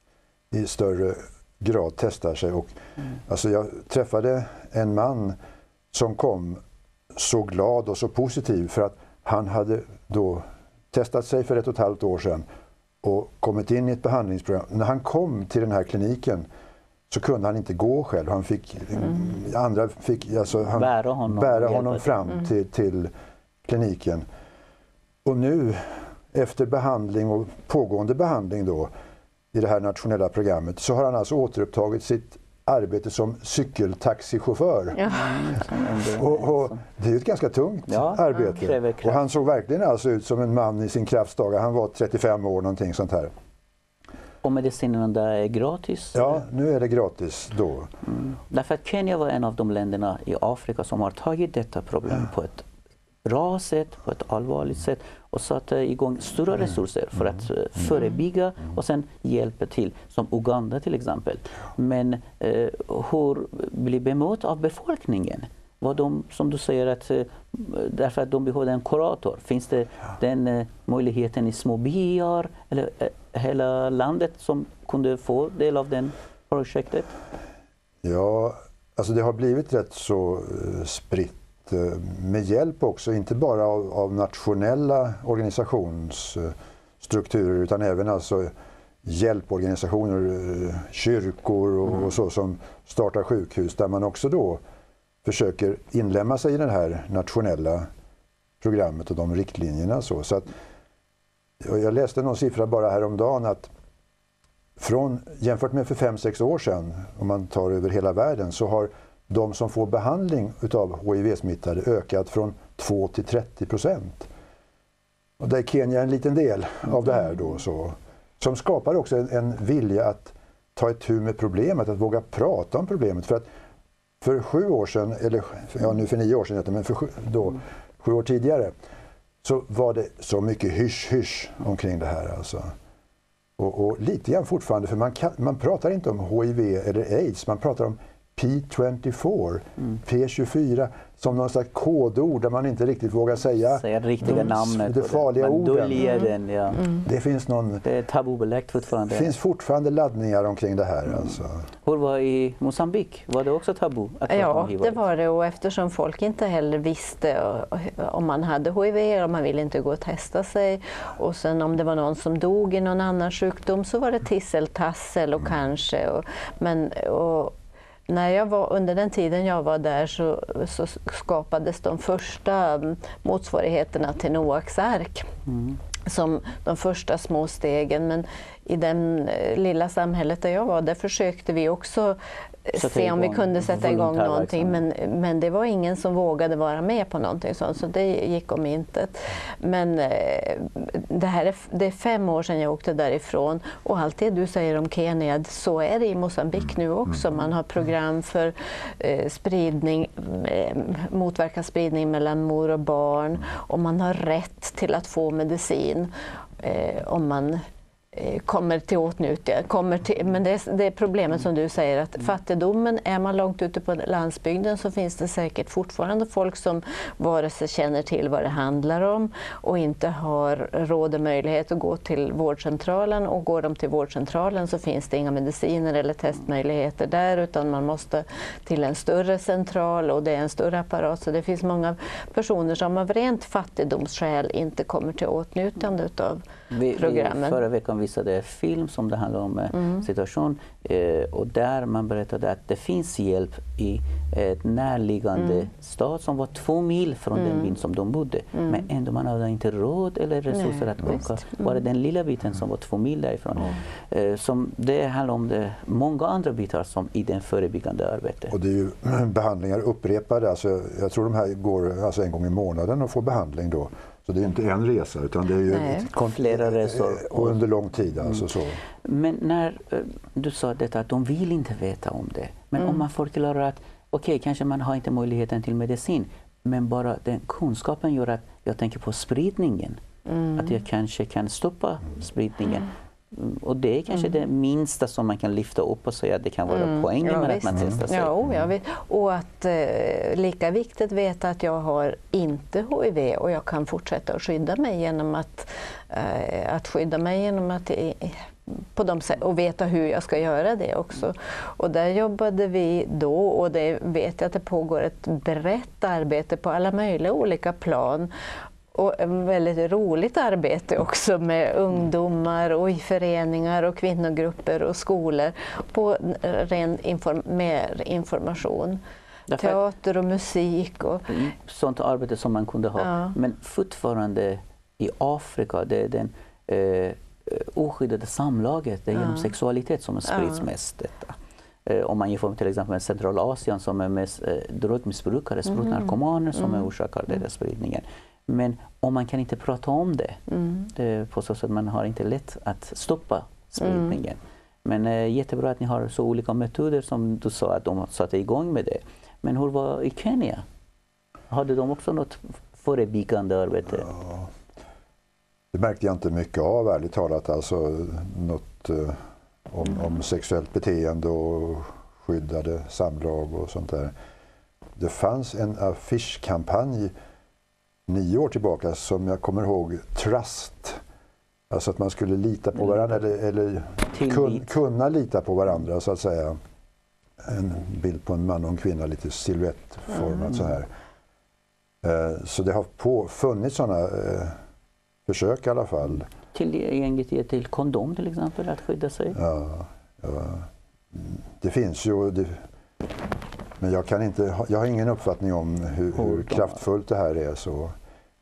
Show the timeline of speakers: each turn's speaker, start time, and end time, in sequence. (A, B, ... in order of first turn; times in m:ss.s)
0:00.5-0:02.7 A
0:03.3-0:05.4 A
0:05.9-0:12.4 A
0:13.0-0:16.4 A
0:17.1-0:23.1 A
0:20.7-0:22.2 B
0:23.6-0:24.2 A
0:25.2-0:28.9 A
0:29.5-0:35.0 A
0:35.0-0:35.3 C
0:35.0-0:36.8 B
0:36.1-0:43.3 A
0:37.9-0:39.2 B
0:44.4-0:46.4 B
0:46.1-0:47.9 A
0:48.0-0:52.7 B
0:53.2-1:17.1 B
1:18.0-1:28.5 A
1:29.0-1:34.6 A
1:35.2-1:37.9 A
1:38.6-1:40.5 A
1:41.6-1:43.7 A
1:44.8-1:54.3 A
1:55.4-2:03.4 A
2:04.2-2:08.7 A
2:09.4-2:12.7 A
2:13.6-2:26.1 A
2:23.7-2:26.9 B
2:26.0-2:26.3 C
2:27.0-2:27.8 A
2:27.8-2:29.3 B
2:29.1-2:31.7 A
2:31.8-2:35.0 B
2:34.3-2:47.6 C
2:48.1-2:55.3 C
2:55.5-2:55.8 B
2:56.0-3:57.6 C
3:02.8-3:04.8 B
3:56.7-4:18.5 B
4:07.4-4:07.7 C
4:10.5-4:11.7 C
4:18.5-4:28.8 A
4:25.7-4:26.1 C
4:26.1-4:27.6 B
4:29.0-4:40.0 B
4:40.3-4:40.7 C
4:40.6-4:48.3 B
4:46.7-5:08.3 C
5:08.9-5:19.0 C
5:19.5-5:19.8 B
5:19.6-5:21.5 C
5:21.3-5:40.4 B
5:23.0-5:23.3 C
5:30.4-5:30.6 C
5:35.8-5:36.8 C
5:40.5-5:40.9 C
5:40.9-5:50.6 B
5:43.8-5:44.1 C
5:51.5-5:54.1 B
5:54.1-5:54.5 A
5:55.7-6:04.1 A
6:05.0-6:07.1 A
6:08.1-6:11.0 A
6:11.7-6:16.6 A
6:14.1-6:14.6 B
6:17.4-6:20.9 A
6:22.0-6:24.6 A
6:25.3-6:26.3 A
6:26.5-6:29.4 B
6:29.3-6:32.6 A
6:33.8-6:37.9 A
6:36.2-6:36.8 B